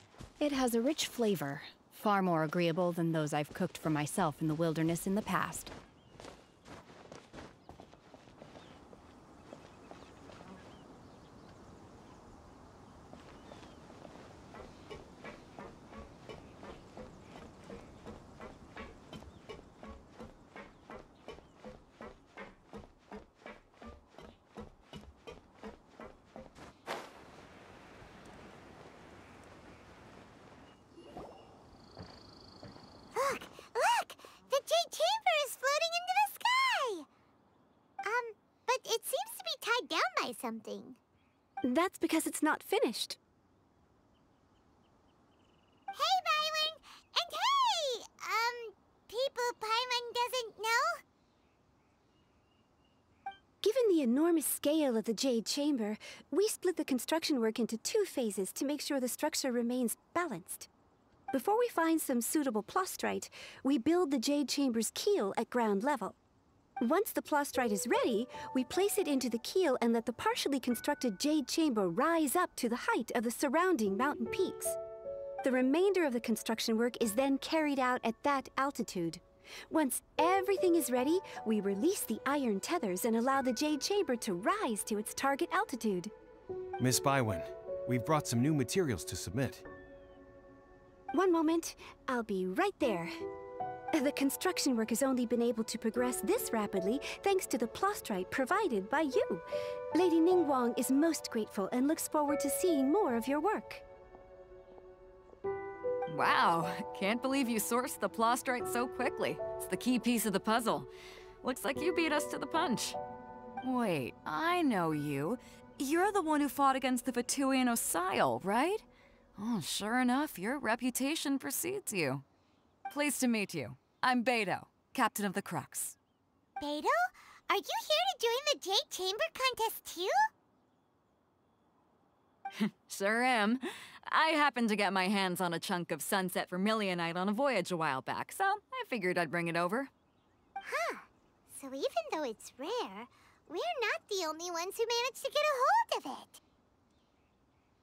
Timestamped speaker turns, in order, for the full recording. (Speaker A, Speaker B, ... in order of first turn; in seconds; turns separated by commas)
Speaker A: 0.4-5.7, Speaker B: 33.1-37.1, Speaker B: 38.0-41.0, Speaker C: 41.6-43.2, Speaker B: 45.9-51.0, Speaker C: 53.6-60.7, Speaker C: 61.3-66.2, Speaker C: 66.8-74.8, Speaker C: 75.4-86.1, Speaker D: 86.8-89.6, Speaker C: 91.1-93.2, Speaker C: 93.9-103.8, Speaker E: 106.1-110.9, Speaker E: 111.4-113.0, Speaker E: 113.6-118.8, Speaker E: 119.4-122.2, Speaker E: 122.9-126.0, Speaker B: 126.6-130.3, Speaker E: 132.6-139.9, Speaker B: 140.6-146.4